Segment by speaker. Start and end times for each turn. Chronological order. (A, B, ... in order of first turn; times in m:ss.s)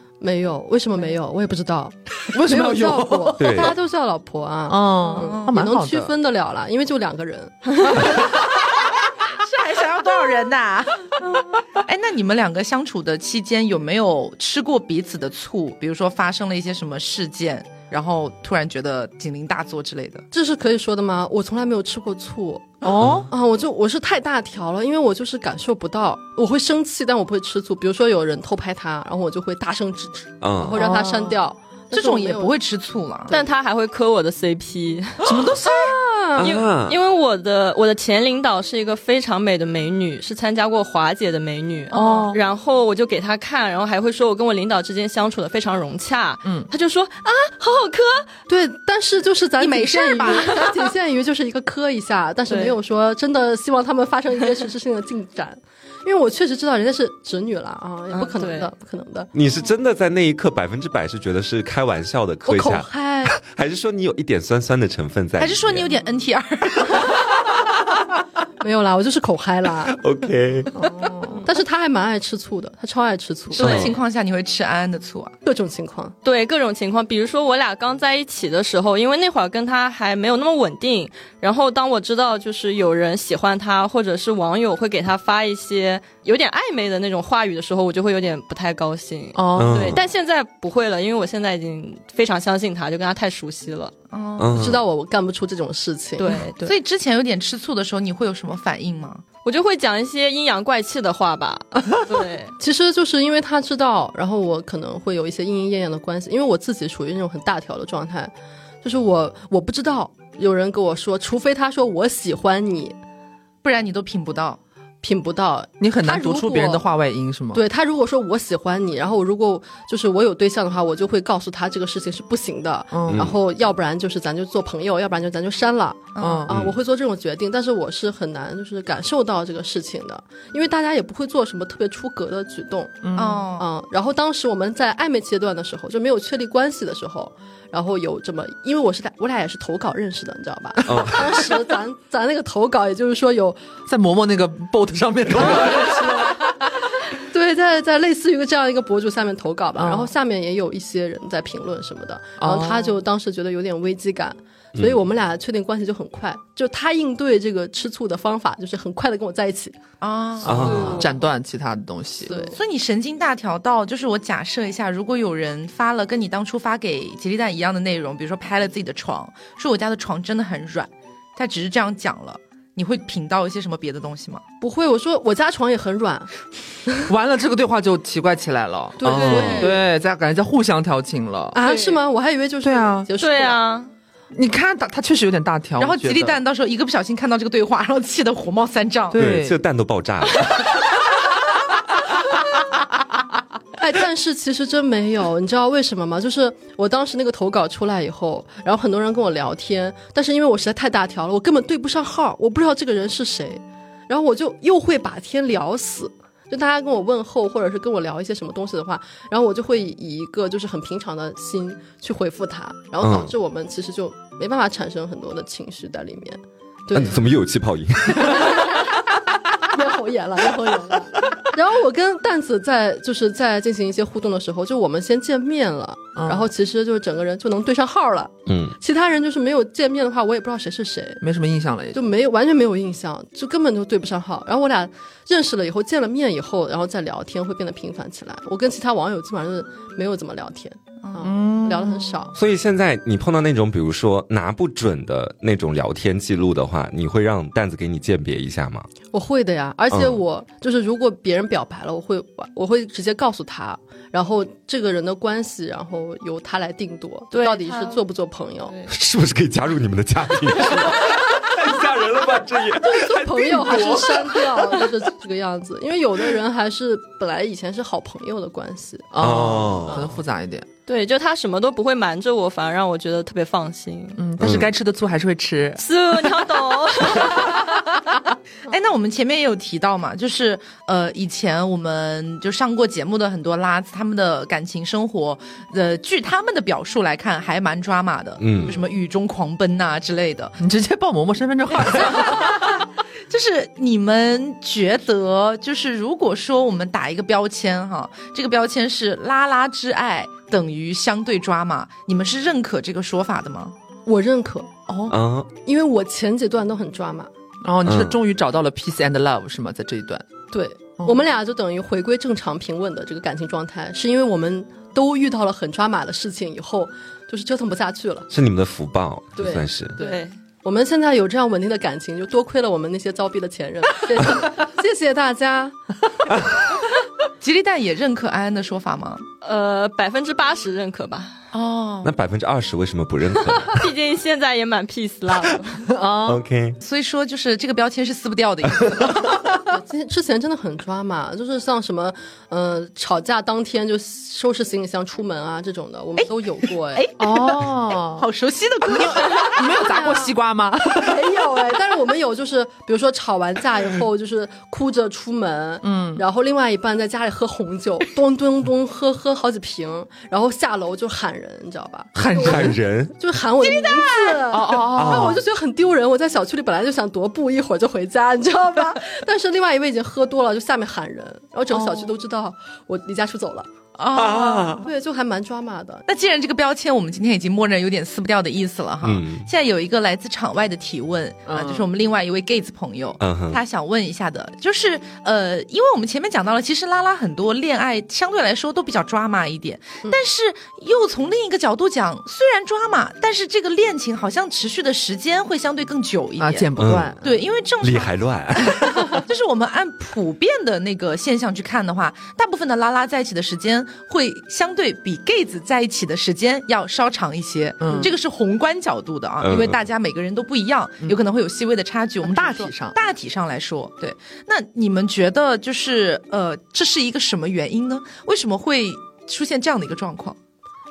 0:00.2-0:08.3 A
0:02.3-0:03.7 B
0:03.4-0:03.8 C
0:04.7-0:06.1 B
0:05.2-0:05.5 D
0:08.1-0:20.2 D
0:20.3-0:32.5 A
0:22.8-0:23.3 B
0:30.4-0:30.9 C
0:30.7-0:31.4 B
0:31.9-0:33.3 D
0:33.3-0:35.2 E
0:35.2-0:36.0 B
0:35.6-0:36.6 A
0:36.4-0:37.0 C
0:36.4-0:48.3 E
0:41.9-0:42.3 D
0:41.9-0:42.4 B
0:46.4-0:46.7 B
0:48.5-0:59.3 A
0:49.6-0:50.9 D
0:52.5-0:52.8 E
0:58.1-0:58.7 E
0:59.3-1:05.9 C
1:02.5-1:03.4 A
1:05.4-1:07.4 D
1:08.6-1:10.0 A
1:09.9-1:10.7 C
1:10.8-1:11.4 B
1:11.4-1:13.9 A
1:13.6-1:15.4 D
1:13.6-1:13.9 C
1:13.6-1:13.9 E
1:15.4-1:16.2 A
1:16.2-1:33.9 E
1:29.3-1:30.0 B
1:29.6-1:30.0 C
1:34.1-1:34.6 D
1:34.4-1:34.8 C
1:34.5-1:36.4 A
1:36.2-1:36.8 E
1:36.6-1:39.2 D
1:39.4-1:42.5 E
1:42.6-1:48.3 A
1:48.8-1:53.0 A
1:53.6-1:54.6 D
1:55.0-1:56.9 A
1:55.8-1:57.6 B
1:57.5-2:23.6 A
2:02.9-2:03.4 B
2:03.1-2:03.4 C
2:06.2-2:06.5 D
2:06.2-2:06.6 B
2:06.5-2:06.8 C
2:13.0-2:13.4 B
2:13.2-2:13.7 D
2:20.8-2:21.3 C
2:23.9-2:26.5 B
2:25.5-2:26.0 A
2:27.2-2:39.8 A
2:29.8-2:30.1 B
2:32.4-2:33.0 B
2:40.0-2:41.0 D
2:40.4-2:41.0 C
2:40.5-2:42.4 B
2:40.6-2:41.1 E
2:42.2-2:42.6 A
2:42.4-2:54.4 D
2:54.6-2:56.3 A
2:57.1-3:01.6 B
2:59.0-2:59.8 A
2:59.0-2:59.7 C
2:59.3-2:59.7 E
3:01.5-3:03.6 A
3:01.6-3:02.0 E
3:02.6-3:03.1 B
3:03.2-3:03.9 E
3:04.3-3:06.4 B
3:05.8-3:09.2 D
3:09.1-3:09.6 B
3:09.1-3:10.7 C
3:13.8-3:37.2 A
3:33.0-3:33.3 C
3:36.9-3:38.8 C
3:38.2-3:38.8 A
3:39.6-3:51.2 A
3:46.2-3:46.5 B
3:48.5-3:48.8 C
3:51.2-3:52.0 B
3:51.9-4:02.4 A
4:01.0-4:01.3 D
4:01.2-4:02.2 B
4:02.3-4:08.9 C
4:09.1-4:18.8 A
4:09.9-4:10.2 C
4:17.3-4:18.0 E
4:18.7-4:18.9 E
4:18.9-4:24.9 C
4:22.8-4:29.1 A
4:29.1-4:30.7 B
4:29.2-4:30.1 C
4:30.9-4:34.2 E
4:34.2-4:35.8 B
4:34.4-4:34.7 C
4:35.8-4:37.6 E
4:38.7-4:50.6 D
4:48.4-4:48.8 C
4:50.6-4:52.6 B
4:51.8-5:03.8 D
5:04.1-5:04.7 A
5:04.9-5:05.1 D
5:05.1-5:05.5 C
5:05.6-5:07.3 A
5:07.6-5:10.2 B
5:07.8-5:08.2 C
5:10.5-5:18.3 A
5:18.3-5:20.0 C
5:19.4-5:25.8 A
5:20.0-5:20.4 E
5:27.4-5:29.2 D
5:29.4-5:31.4 E
5:31.5-5:32.1 D
5:32.0-5:33.8 C
5:33.6-5:35.8 E
5:35.9-5:36.4 B
5:36.2-5:36.8 C
5:36.8-5:39.5 D
5:39.7-5:47.1 A
5:46.2-5:49.7 D
5:47.2-5:48.2 B
5:48.9-5:51.4 B
5:49.7-5:50.3 A
5:51.0-6:13.7 A
5:55.8-5:56.2 B
6:02.2-6:02.8 B
6:02.3-6:03.2 C
6:03.6-6:04.4 D
6:04.5-6:05.4 B
6:04.9-6:05.4 C
6:11.7-6:12.2 B
6:14.0-6:14.8 D
6:14.1-6:14.9 C
6:14.8-6:16.0 A
6:16.1-7:00.4 D
6:19.0-6:19.5 C
6:21.5-6:21.9 B
6:23.2-6:23.6 C
6:36.4-6:37.3 B
6:36.8-6:37.2 C
6:37.8-6:39.2 C
6:47.8-6:48.1 B
6:49.4-6:49.8 C
6:52.2-6:53.0 B